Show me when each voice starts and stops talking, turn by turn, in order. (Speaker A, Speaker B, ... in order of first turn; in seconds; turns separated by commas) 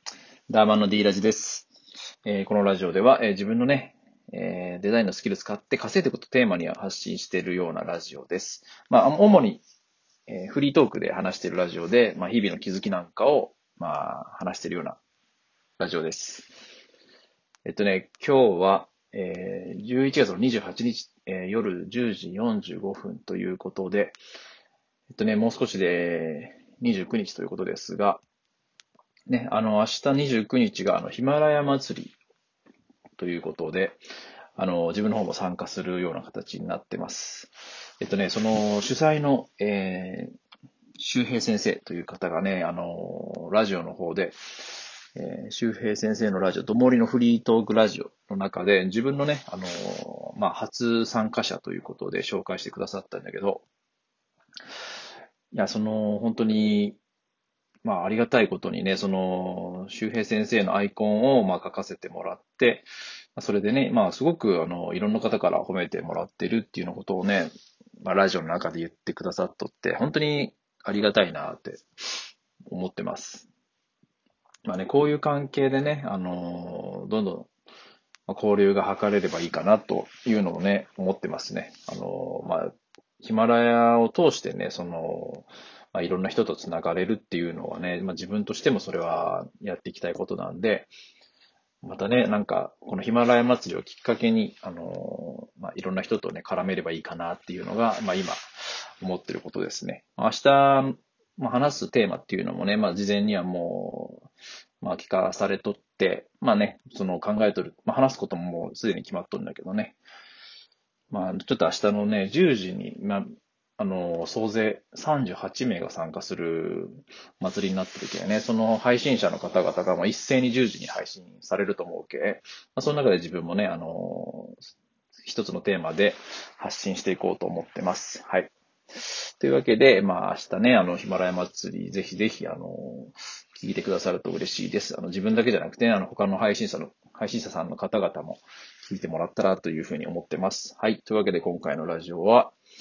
Speaker A: 0.5-1.7, Speaker A: 2.2-9.6, Speaker A: 10.3-15.0, Speaker A: 15.8-16.5, Speaker A: 17.6-24.2, Speaker A: 25.1-28.2, Speaker A: 29.3-32.1, Speaker A: 33.2-34.0, Speaker A: 34.6-37.5, Speaker A: 38.0-40.3, Speaker A: 41.0-44.4, Speaker A: 45.1-53.6, Speaker A: 55.5-57.0, Speaker A: 57.9-67.5, Speaker A: 68.0-71.8, Speaker A: 72.7-73.5, Speaker A: 74.7-77.5, Speaker A: 78.3-90.9, Speaker A: 91.8-98.4, Speaker A: 99.0-104.3, Speaker A: 104.8-110.0, Speaker A: 111.1-124.6, Speaker A: 125.2-142.6